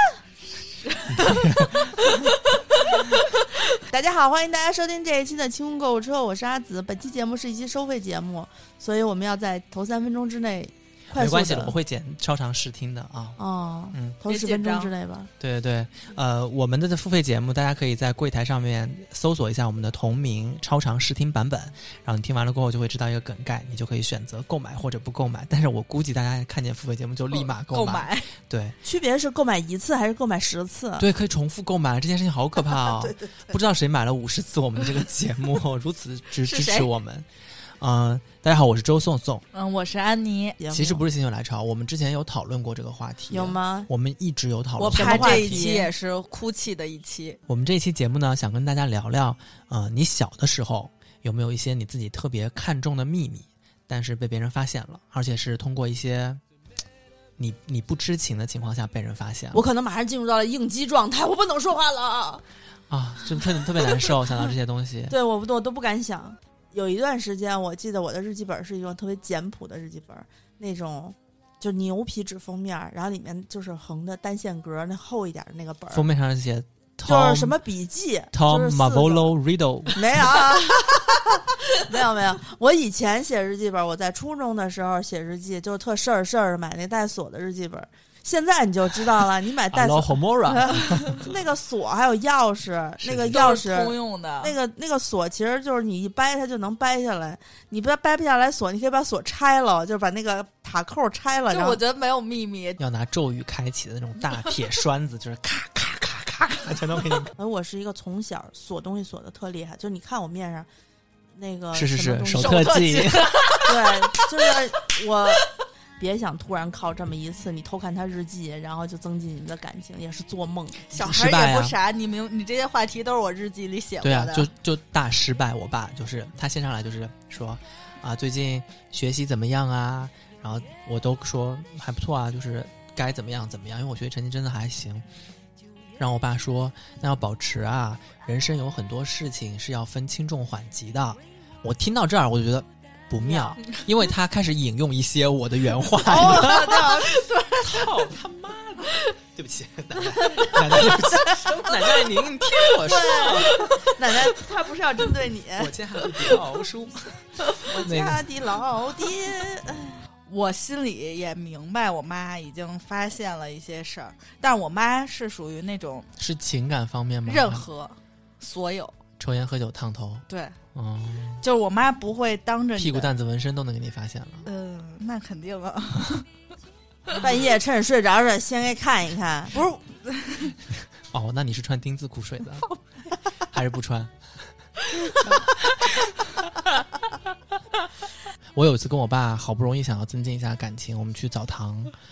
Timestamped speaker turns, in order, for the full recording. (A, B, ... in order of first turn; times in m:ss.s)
0:00.6-0:02.1 A
0:01.1-0:01.9 B
0:03.9-0:11.8 C
0:11.2-0:13.4 B
0:13.4-0:15.3 C
0:13.9-0:14.2 B
0:14.2-0:14.9 A
0:15.4-0:28.8 B
0:27.3-0:28.3 A
0:28.8-0:31.1 C
0:31.0-0:37.3 B
0:36.4-0:36.9 A
0:37.8-0:39.4 B
0:39.5-0:40.6 A
0:40.6-0:41.0 C
0:40.7-0:45.7 B
0:43.3-0:43.9 C
0:44.8-0:47.4 A
0:44.9-0:45.9 C
0:47.5-0:56.4 B
0:57.4-0:59.6 B
0:59.5-1:02.4 C
1:02.9-1:05.2 B
1:05.1-1:16.1 C
1:15.9-1:17.6 B
1:17.1-1:19.3 C
1:18.3-1:20.3 B
1:20.0-1:41.8 C
1:29.7-1:31.4 B
1:33.0-1:33.4 B
1:33.2-1:34.6 A
1:41.5-1:42.8 A
1:42.8-1:47.3 B
1:47.4-1:50.7 C
1:51.4-1:53.1 C
1:51.7-1:53.6 B
1:52.3-1:53.8 A
1:53.6-2:01.1 C
2:00.9-2:04.5 A
2:01.0-2:01.8 B
2:04.0-2:15.0 B
2:16.0-2:26.8 B
2:23.2-2:23.6 C
2:26.1-2:27.1 C
2:26.1-2:28.0 A
2:27.6-2:33.9 B
2:30.3-2:32.7 A
2:32.8-2:35.7 C
2:35.6-2:37.2 B
2:37.6-2:40.0 C
2:37.8-2:38.2 B
2:40.3-2:46.1 A
2:46.2-2:47.7 B
2:47.2-2:49.0 A
2:49.2-2:51.4 B
2:50.3-2:50.6 A
2:51.4-2:53.1 A
2:52.8-2:54.5 B
2:54.4-2:56.2 A
2:57.2-2:59.6 C
2:59.6-3:00.6 A
3:01.1-3:02.7 B
3:03.5-3:04.1 B
3:08.6-3:11.9 B